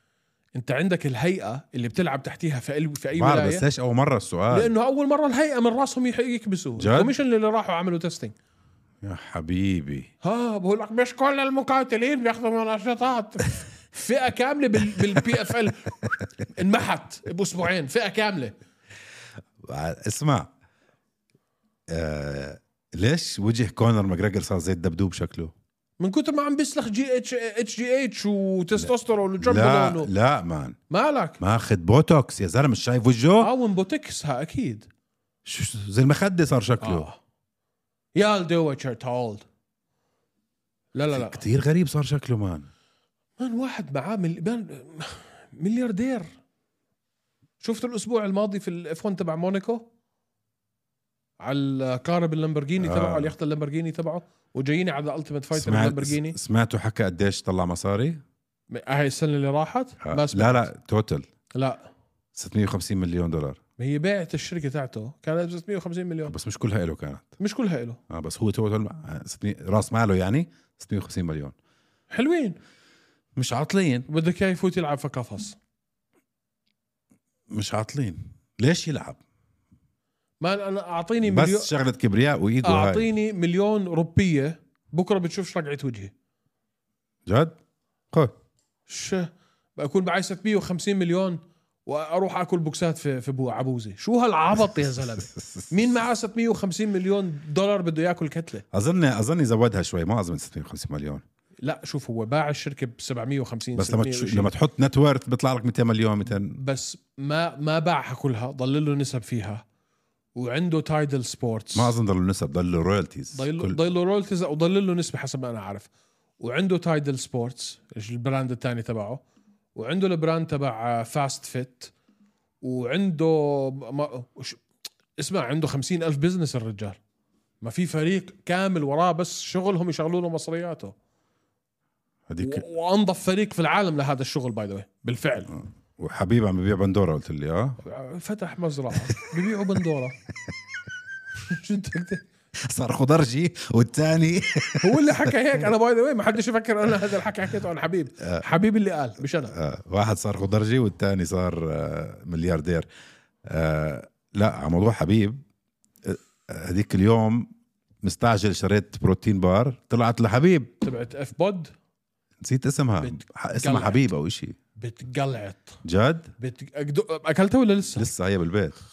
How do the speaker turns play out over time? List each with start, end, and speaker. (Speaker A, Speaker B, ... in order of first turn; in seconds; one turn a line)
Speaker A: 0.5-3.6
Speaker B: 3.1-4.7
Speaker A: 4.5-8.3
Speaker B: 6.8-7.1
Speaker B: 9.0-10.1
Speaker A: 10.2-15.9
Speaker A: 16.5-18.5
Speaker B: 19.6-20.5
Speaker B: 21.9-25.5
Speaker A: 26.0-30.1
Speaker B: 28.8-30.8
Speaker A: 30.9-31.4
Speaker B: 31.4-33.5
Speaker A: 33.4-34.9
Speaker B: 35.4-37.1
Speaker A: 36.8-37.2
Speaker A: 38.1-39.4
Speaker A: 40.9-41.4
Speaker B: 41.1-42.7
Speaker A: 43.4-46.3
Speaker A: 47.6-49.8
Speaker A: 51.4-56.4
Speaker B: 52.8-53.3
Speaker B: 55.5-58.2
Speaker A: 58.7-60.7
Speaker B: 60.0-61.3
Speaker A: 61.5-61.8
Speaker B: 62.3-63.6
Speaker A: 63.8-66.3
Speaker B: 66.3-67.3
Speaker A: 67.4-68.0
Speaker B: 68.1-71.5
Speaker A: 72.1-72.6
Speaker B: 73.3-74.1
Speaker A: 74.1-75.6
Speaker B: 77.5-79.2
Speaker A: 80.4-81.7
Speaker B: 81.2-83.1
Speaker A: 82.6-86.1
Speaker B: 87.2-87.5
Speaker A: 88.9-98.6
Speaker B: 98.7-101.2
Speaker A: 101.6-104.5
Speaker B: 103.8-106.6
Speaker A: 106.3-109.6
Speaker A: 110.3-111.9
Speaker B: 111.7-113.8
Speaker A: 113.3-115.9
Speaker A: 116.4-119.2
Speaker A: 119.8-121.9
Speaker A: 122.6-124.6
Speaker A: 125.2-127.0
Speaker A: 127.6-130.9
Speaker B: 132.3-132.6
Speaker A: 132.4-135.6
Speaker B: 135.5-137.8
Speaker A: 137.8-140.2
Speaker A: 141.4-142.2
Speaker B: 142.6-145.3
Speaker A: 144.8-149.5
Speaker B: 149.5-152.9
Speaker B: 153.4-155.4
Speaker B: 156.0-157.5
Speaker B: 158.0-160.7
Speaker A: 160.8-161.7
Speaker B: 162.4-164.6
Speaker A: 163.0-164.0
Speaker A: 164.8-165.8
Speaker B: 165.8-166.3
Speaker A: 166.4-168.1
Speaker B: 167.9-168.8